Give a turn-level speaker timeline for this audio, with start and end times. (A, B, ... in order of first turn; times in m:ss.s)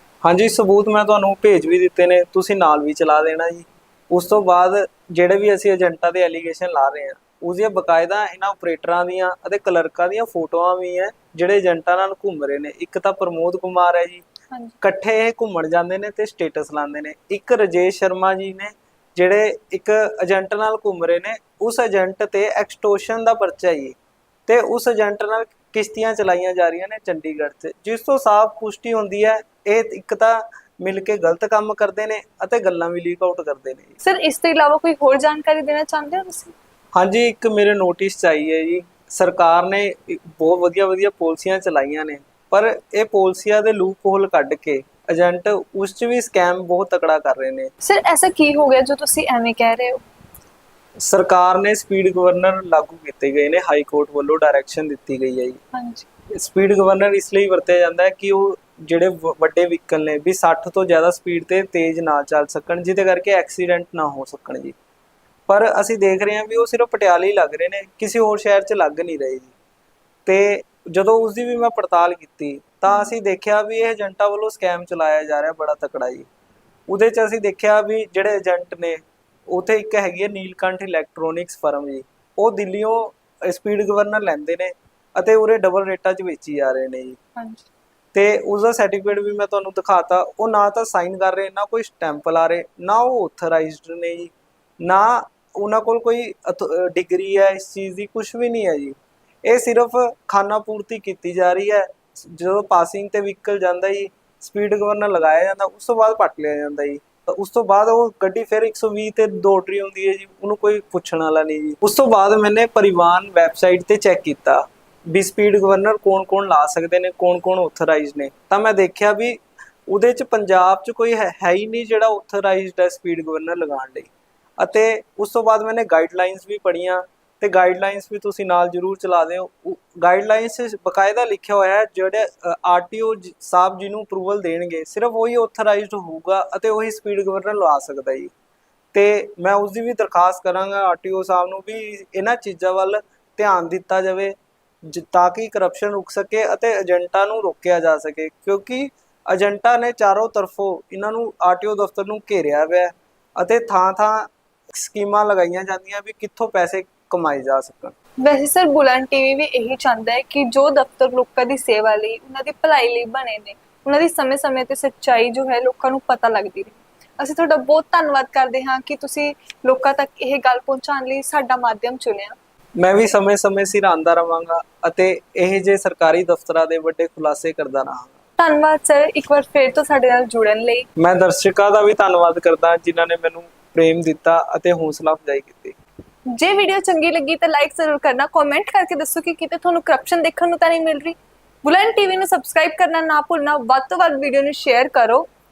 0:00.2-0:14.2 A
0:14.5-0:14.8 B
0:14.8-0:24.0 A
0:24.5-0:34.0 A
0:34.0-0:36.5 B
0:36.9-0:47.7 A
0:47.8-0:50.0 B
0:51.0-0:55.6 A
0:55.7-0:56.1 B
0:56.3-1:04.8 A
1:05.5-1:09.5 A
1:10.3-1:16.3 A
1:16.9-1:27.2 A
1:27.4-1:27.7 B
1:28.1-2:18.3 A
2:18.9-2:38.0 A
2:38.2-2:52.4 B
2:52.8-2:58.1 A
2:58.4-3:00.9 B
3:01.0-3:05.8 A
3:06.3-3:15.3 B